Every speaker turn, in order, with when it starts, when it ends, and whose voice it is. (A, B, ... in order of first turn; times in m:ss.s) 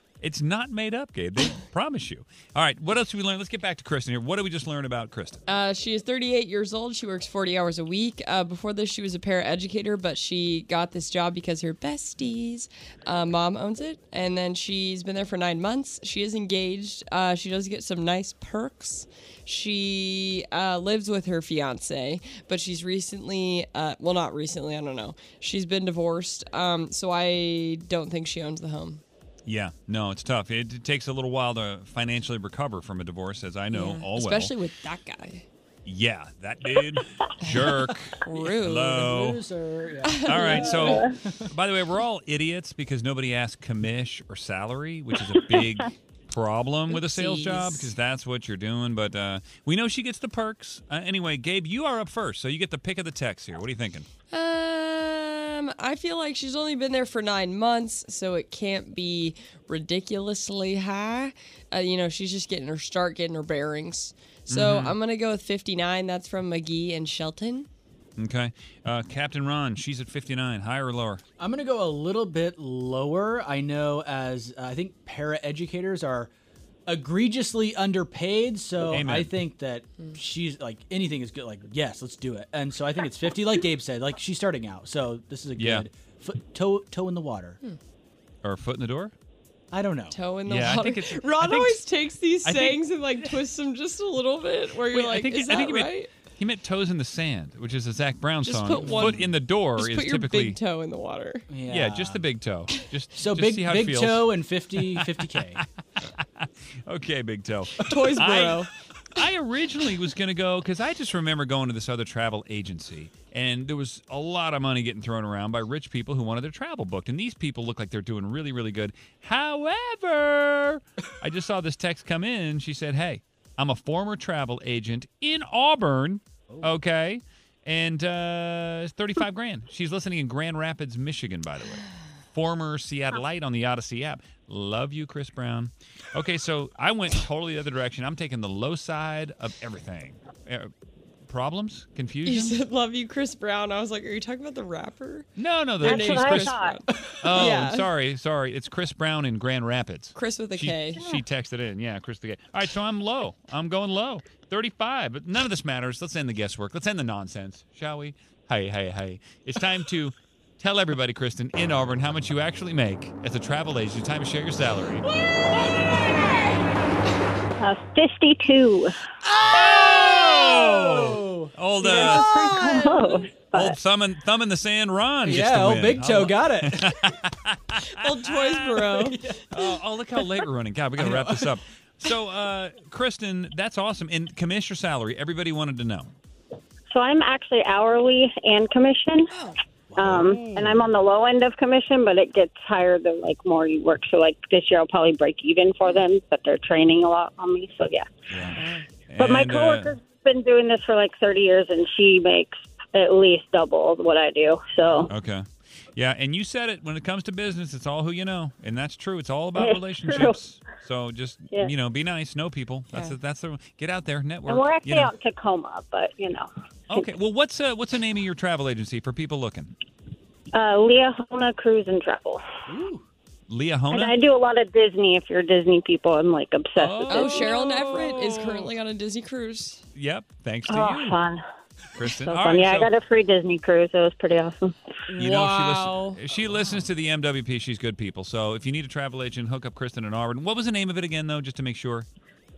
0:00.2-0:05.4 A
0:05.5-0:29.0 B
0:29.4-0:34.6 A
0:33.7-0:35.4 B
0:35.8-0:39.4 A
0:37.4-0:39.1 B
0:39.0-0:41.4 C
0:40.0-0:41.1 B
0:40.2-0:54.1 A
0:46.9-0:47.9 B
0:54.3-1:07.7 B
1:04.5-1:05.0 A
1:08.2-1:11.2 A
1:11.4-1:16.3 C
1:16.9-1:27.6 C
1:18.9-1:19.4 A
1:25.6-1:25.8 A
1:28.4-1:29.1 A
1:29.7-1:30.2 C
1:30.1-1:36.1 B
1:30.4-1:31.8 A
1:32.5-1:32.8 C
1:34.9-1:40.6 A
1:38.4-1:41.5 B
1:38.8-1:39.3 C
1:41.5-1:42.2 C
1:41.7-1:44.3 A
1:43.2-1:45.6 C
1:46.0-2:20.7 A
1:47.8-1:48.7 B
2:21.2-2:22.6 A
2:22.2-2:25.3 B
2:25.4-2:26.6 A
2:25.8-2:27.9 B
2:25.8-2:26.8 D
2:27.2-2:45.0 A
2:30.1-2:31.1 B
2:45.2-2:46.3 C
2:47.6-2:49.0 D
2:49.3-2:53.0 C
2:49.5-2:52.3 A
2:51.8-2:53.8 D
2:53.5-2:58.7 A
2:55.2-2:57.0 C
2:57.8-2:59.3 B
2:58.8-2:59.5 C
2:59.5-3:06.1 A
3:01.0-3:01.6 C
3:06.9-3:09.3 D
3:09.9-3:10.8 C
3:10.0-3:18.1 D
3:18.3-3:19.9 A
3:18.6-3:18.9 B
3:19.2-3:25.1 D
3:25.1-3:35.1 A
3:29.6-3:30.4 D
3:32.9-3:33.2 B
3:34.5-3:36.5 D
3:36.9-3:39.8 A
3:40.5-3:42.4 D
3:42.7-3:43.0 C
3:43.5-3:44.2 A
3:43.9-3:47.7 D
3:46.8-3:48.7 A
3:47.1-3:49.8 B
3:49.9-3:51.2 A
3:50.7-3:51.4 D
3:51.9-3:52.9 A
3:52.2-3:54.7 D
3:55.1-3:56.2 B
3:55.2-4:02.1 A